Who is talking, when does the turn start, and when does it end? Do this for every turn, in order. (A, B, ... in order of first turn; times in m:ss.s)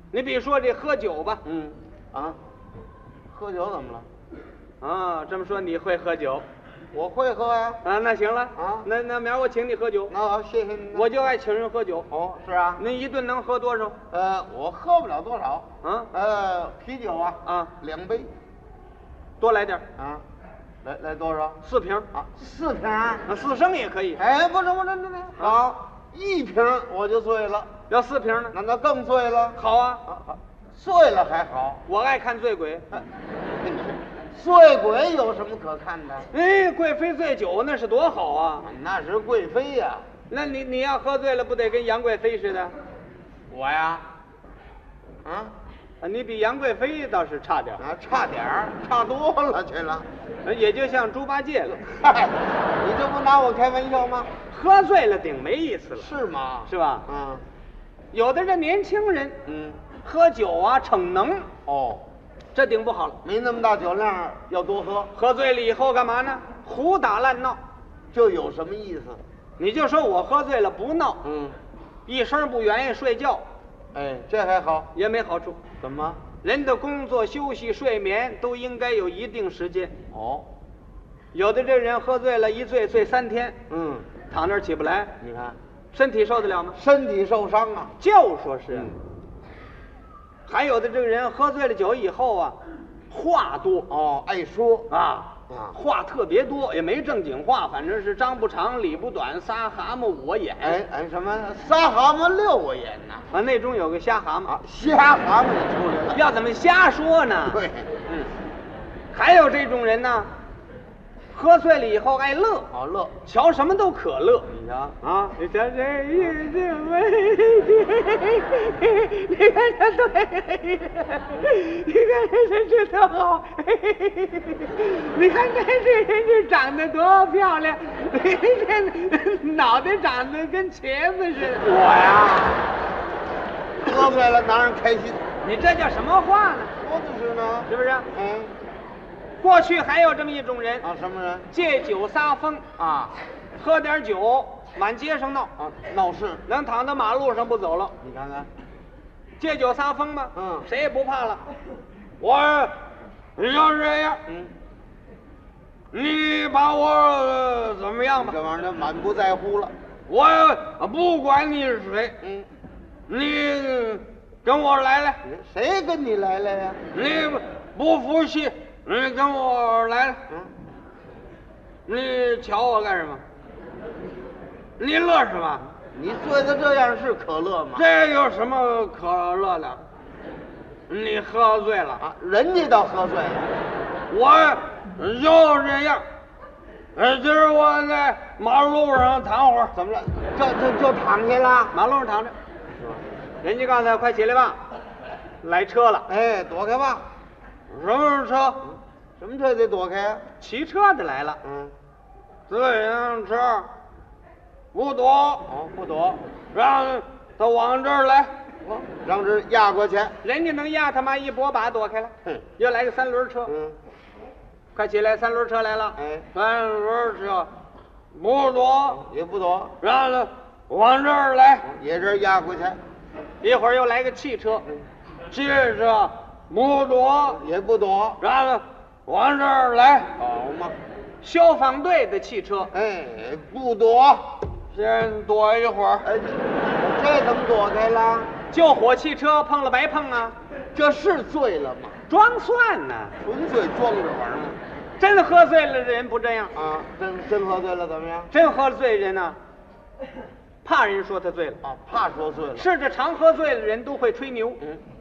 0:00.1-0:01.4 A
0:01.4-0:02.4 B
0:03.3-0:04.1 B
0:04.8-0:06.4 A
0:06.9-0:07.8 B
0:07.8-0:10.1 A
0:08.6-0:08.9 B
0:10.1-0:11.1 B
0:10.9-0:12.1 A
0:12.1-0:12.8 B
0:12.8-0:14.0 A
0:14.1-0:18.3 B
0:15.8-0:16.1 A
0:17.4-0:17.7 A
0:19.4-0:19.8 A
0:20.0-0:20.2 B
0:20.8-0:21.6 B
0:21.6-0:22.1 A
0:22.1-0:23.2 B
0:23.2-0:24.2 A
0:24.2-0:27.7 B
0:27.9-0:28.5 A
0:28.5-0:31.8 B
0:29.5-0:30.0 A
0:31.9-0:32.8 A
0:33.6-0:36.3 B
0:36.3-0:38.6 A
0:38.6-0:40.0 B
0:40.3-0:42.7 A
0:43.5-0:44.0 B
0:45.2-0:45.5 B
0:46.0-0:47.8 A
0:47.8-0:50.1 B
0:50.4-0:51.8 A
0:51.7-0:54.3 B
0:54.5-0:56.1 A
0:56.0-0:57.4 B
0:56.7-0:57.0 A
0:58.1-0:59.4 A
0:59.4-0:59.8 B
1:00.0-1:01.5 A
1:01.6-1:02.0 B
1:02.5-1:03.2 A
1:03.2-1:05.1 B
1:05.1-1:07.6 A
1:08.1-1:09.2 B
1:09.6-1:11.2 A
1:11.2-1:11.6 B
1:12.0-1:13.4 A
1:13.9-1:14.9 B
1:14.9-1:15.6 A
1:15.8-1:16.2 B
1:16.4-1:19.9 A
1:20.1-1:20.5 B
1:21.3-1:23.6 A
1:23.7-1:24.1 B
1:24.3-1:25.1 A
1:25.2-1:25.6 B
1:25.9-1:26.8 A
1:26.7-1:27.9 B
1:28.0-1:28.9 A
1:30.4-1:32.6 A
1:33.1-1:33.9 A
1:33.9-1:34.9 B
1:34.9-1:40.8 A
1:35.5-1:35.8 B
1:40.6-1:43.3 B
1:43.3-1:44.5 A
1:44.4-1:46.2 B
1:46.1-1:47.6 A
1:47.5-1:48.1 B
1:49.1-1:50.3 A
1:51.3-1:52.7 A
1:52.7-1:53.2 B
1:53.2-1:54.5 A
1:54.5-1:55.0 B
1:55.0-2:12.7 A
2:13.8-2:15.2 B
2:15.4-2:16.7 A
2:16.8-2:18.5 B
2:17.7-2:18.1 A
2:19.4-2:20.8 A
2:20.8-2:21.5 B
2:21.5-2:22.6 A
2:22.8-2:23.1 B
2:23.6-2:25.5 A
2:25.6-2:26.4 B
2:26.4-2:27.9 A
2:28.0-2:28.5 B
2:29.4-2:31.4 A
2:30.3-2:30.7 B
2:32.2-2:32.7 A
2:33.4-2:34.2 A
2:34.3-2:34.5 B
2:35.9-2:38.4 A
2:38.2-2:39.7 B
2:40.1-2:42.2 A
2:42.2-2:42.5 B
2:43.1-2:45.2 A
2:45.2-2:46.8 B
2:46.9-2:50.2 A
2:51.9-2:53.2 A
2:54.8-2:55.6 A
2:55.9-2:57.8 B
2:57.7-2:59.8 A
3:00.9-3:02.0 A
3:02.0-3:03.5 B
3:04.1-3:06.0 A
3:06.9-3:09.7 A
3:09.7-3:11.7 B
3:11.7-3:12.3 A
3:12.8-3:13.0 B
3:13.4-3:14.6 A
3:15.4-3:16.1 A
3:16.1-3:17.0 B
3:17.7-3:18.6 A
3:19.2-3:20.2 B
3:20.4-3:21.4 A
3:21.4-3:21.7 B
3:22.5-3:23.7 A
3:24.7-3:25.5 A
3:25.4-3:26.2 B
3:26.5-3:28.3 A
3:28.6-3:30.1 B
3:30.2-3:33.5 A
3:33.5-3:33.8 B
3:34.7-3:37.5 A
3:36.0-3:36.3 B
3:38.1-3:39.0 A
3:38.9-3:39.8 B
3:39.8-3:41.6 A
3:41.6-3:42.8 B
3:43.4-3:44.6 A
3:45.3-3:47.4 A
3:47.3-3:48.2 B
3:48.2-3:50.1 A
3:50.2-3:50.8 B
3:51.2-3:52.7 A
3:52.7-3:54.4 B
3:54.7-3:56.1 A
3:56.0-3:58.3 B
3:58.5-4:00.3 A
4:00.7-4:02.0 B
4:02.1-4:03.2 A
4:03.2-4:04.6 B
4:05.0-4:06.5 A
4:06.5-4:08.3 B
4:08.3-4:09.4 A
4:10.6-4:11.6 A
4:11.6-4:12.7 B
4:12.6-4:14.6 A